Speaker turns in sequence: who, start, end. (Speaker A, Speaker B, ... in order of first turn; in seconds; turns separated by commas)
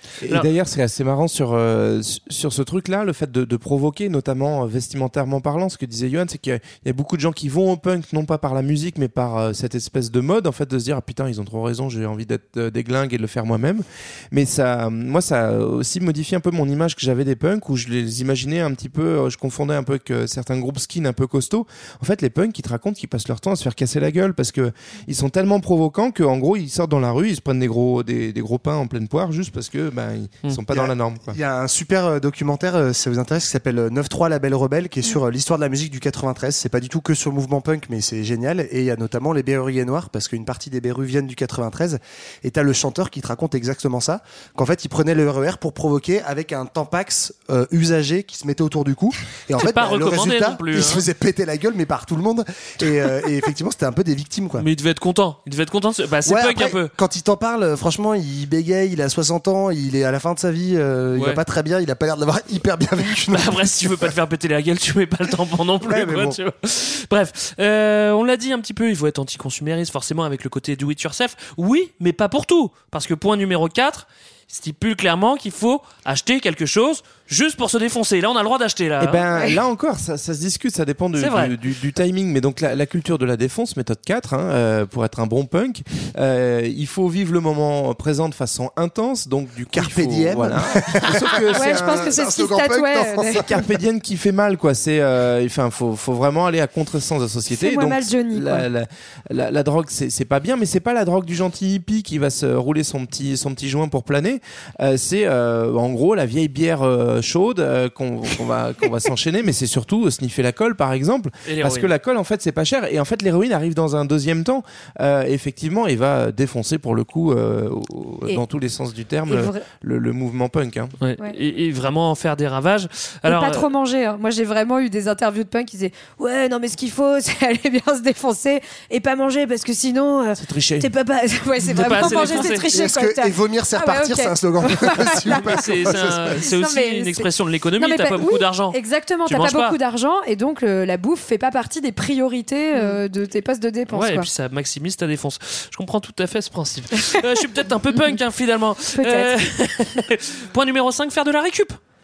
Speaker A: 0.2-31.4, Speaker B: 30.7-54.7, Speaker C: 49.6-51.1, Speaker C: 54.6-56.9, Speaker B: 56.2-63.6, Speaker C: 61.1-61.4, Speaker C: 63.3-79.2, Speaker B: 65.8-66.4, Speaker A: 79.0-92.2, Speaker C: 81.2-81.5, Speaker B: 89.7-93.5, Speaker D: 91.5-93.5, Speaker A: 93.5-121.0, Speaker D: 97.5-98.7, Speaker C: 111.5-111.9, Speaker D: 119.3-119.7, Speaker C: 121.0-123.7, Speaker D: 123.3-144.3, Speaker A: 130.3-130.9, Speaker C: 131.7-132.6, Speaker B: 132.7-136.4, Speaker C: 135.3-139.8, Speaker C: 143.9-151.8, Speaker D: 149.0-149.3